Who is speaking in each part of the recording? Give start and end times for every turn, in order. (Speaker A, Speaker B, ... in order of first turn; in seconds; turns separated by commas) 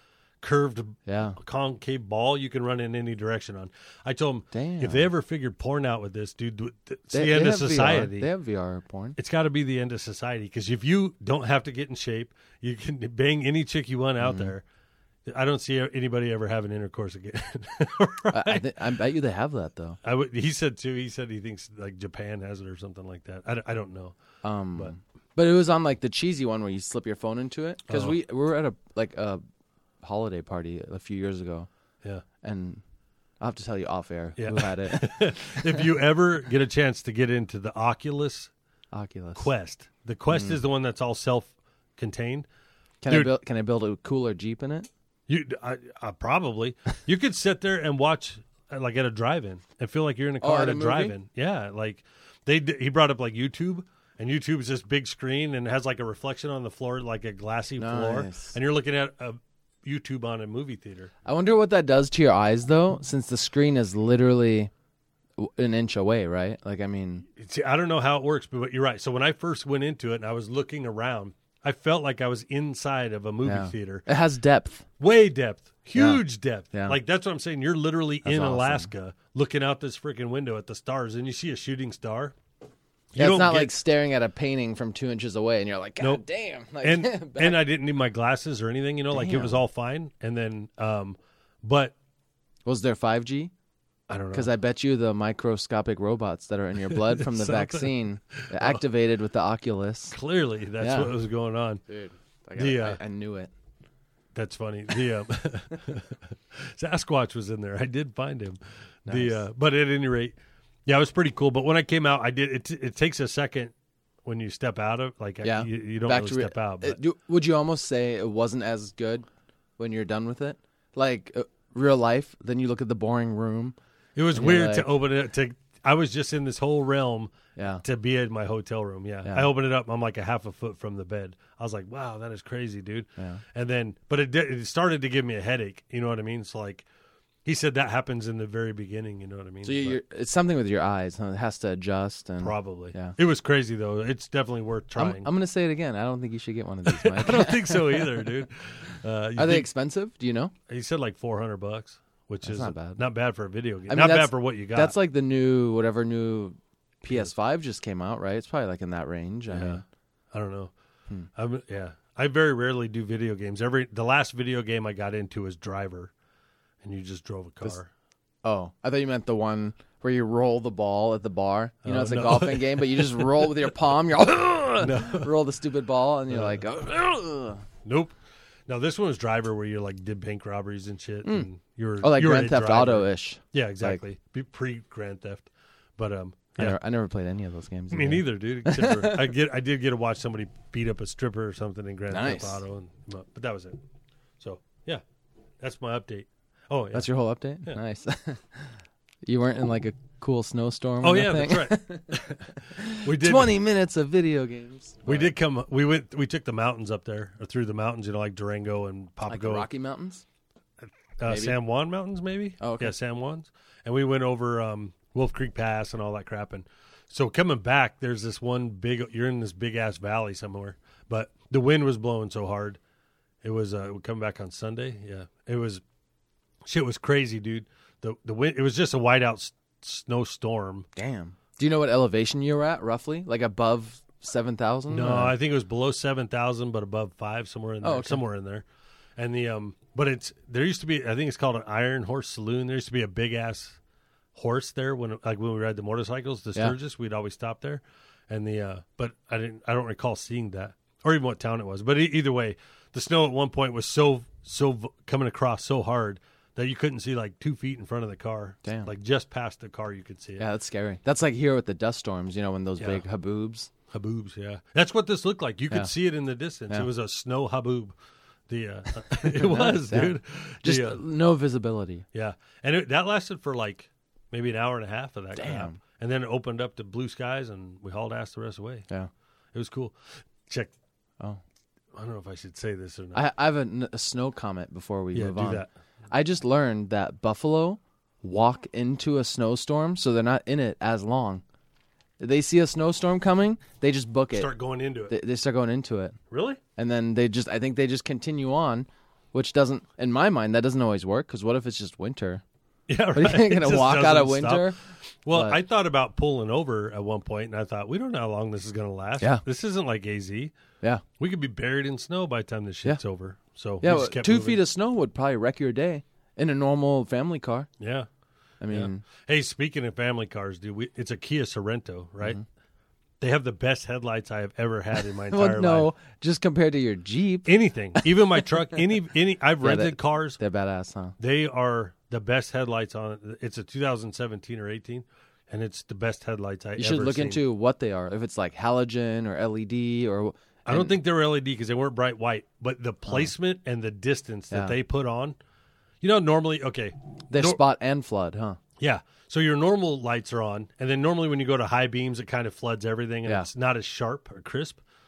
Speaker A: 0.4-8.3, Speaker B: 1.1-1.4, Speaker B: 4.5-5.1, Speaker B: 7.1-9.2, Speaker A: 9.2-14.6, Speaker B: 14.2-14.5, Speaker A: 15.2-18.7, Speaker B: 18.3-20.0, Speaker A: 20.0-24.2, Speaker B: 24.4-29.4, Speaker A: 27.9-28.1, Speaker B: 30.0-31.7, Speaker B: 32.4-32.8, Speaker B: 33.4-35.8, Speaker A: 34.4-38.5, Speaker B: 38.9-39.5, Speaker A: 39.4-42.5, Speaker B: 40.3-40.6, Speaker B: 43.0-44.9, Speaker A: 43.1-43.3, Speaker A: 45.3-61.1, Speaker B: 50.4-51.1, Speaker B: 57.8-58.5, Speaker B: 61.2-64.7, Speaker B: 65.4-67.2, Speaker A: 67.3-74.1, Speaker B: 73.4-74.8, Speaker A: 75.0-82.3, Speaker B: 76.0-77.0, Speaker B: 78.2-78.9, Speaker A: 83.1-83.8, Speaker B: 83.2-87.6, Speaker A: 86.8-91.9, Speaker B: 89.1-89.6, Speaker B: 92.6-93.5, Speaker A: 94.1-94.5, Speaker B: 94.3-100.2, Speaker A: 96.9-98.8, Speaker A: 100.1-101.8, Speaker B: 100.8-101.1, Speaker B: 101.9-103.5, Speaker A: 102.6-103.0, Speaker A: 104.3-113.7, Speaker B: 109.1-109.4, Speaker A: 114.2-117.0, Speaker B: 115.4-119.3, Speaker B: 119.8-123.8, Speaker A: 124.2-136.8, Speaker B: 124.3-124.9, Speaker B: 127.5-127.8, Speaker B: 133.2-133.4, Speaker A: 137.4-140.0, Speaker B: 139.6-143.1, Speaker A: 142.4-145.3, Speaker B: 144.9-148.2, Speaker A: 146.8-149.7, Speaker B: 149.3-150.5, Speaker A: 150.7-154.9, Speaker B: 152.4-153.0, Speaker B: 153.9-159.8, Speaker A: 159.5-160.7, Speaker A: 161.3-166.1, Speaker A: 166.8-167.9, Speaker B: 168.4-177.6, Speaker A: 171.8-173.7, Speaker A: 174.8-175.3, Speaker A: 176.3-176.6, Speaker A: 177.8-178.2, Speaker A: 178.7-186.8, Speaker B: 182.0-184.0, Speaker B: 186.6-189.3, Speaker A: 187.9-193.8, Speaker B: 192.1-192.6, Speaker A: 194.4-195.0, Speaker A: 195.6-197.1, Speaker B: 196.9-205.3, Speaker A: 201.0-203.6, Speaker A: 205.0-209.7, Speaker B: 209.3-210.2, Speaker A: 211.2-222.8, Speaker B: 211.3-211.6, Speaker B: 212.6-212.9, Speaker A: 223.4-225.8, Speaker A: 226.7-230.9, Speaker B: 230.9-235.3, Speaker A: 234.9-238.6, Speaker B: 237.8-238.2, Speaker A: 239.2-243.8, Speaker A: 244.3-260.4, Speaker B: 258.6-258.9, Speaker B: 260.4-263.7, Speaker A: 263.9-267.9, Speaker A: 268.5-271.0, Speaker B: 269.2-272.0, Speaker A: 272.1-278.9, Speaker B: 275.4-275.8, Speaker A: 279.5-280.7, Speaker A: 281.9-283.2, Speaker B: 283.1-291.4, Speaker A: 285.1-285.7, Speaker B: 292.2-294.5, Speaker A: 294.3-295.1, Speaker B: 295.1-296.1, Speaker A: 296.3-296.6, Speaker B: 296.8-302.4, Speaker A: 302.9-304.7, Speaker B: 303.1-304.8, Speaker A: 305.2-310.5, Speaker B: 305.3-305.6, Speaker A: 311.2-314.6, Speaker B: 313.8-317.7, Speaker A: 317.8-318.1, Speaker B: 318.6-319.0, Speaker A: 318.7-322.4, Speaker A: 323.2-325.9, Speaker B: 325.3-328.1, Speaker A: 327.4-330.4, Speaker B: 329.6-331.1, Speaker A: 331.2-337.4, Speaker B: 336.8-340.9, Speaker A: 340.6-345.4, Speaker B: 343.1-343.3, Speaker B: 344.5-344.8, Speaker A: 346.0-347.6, Speaker B: 347.3-348.6, Speaker A: 348.8-354.8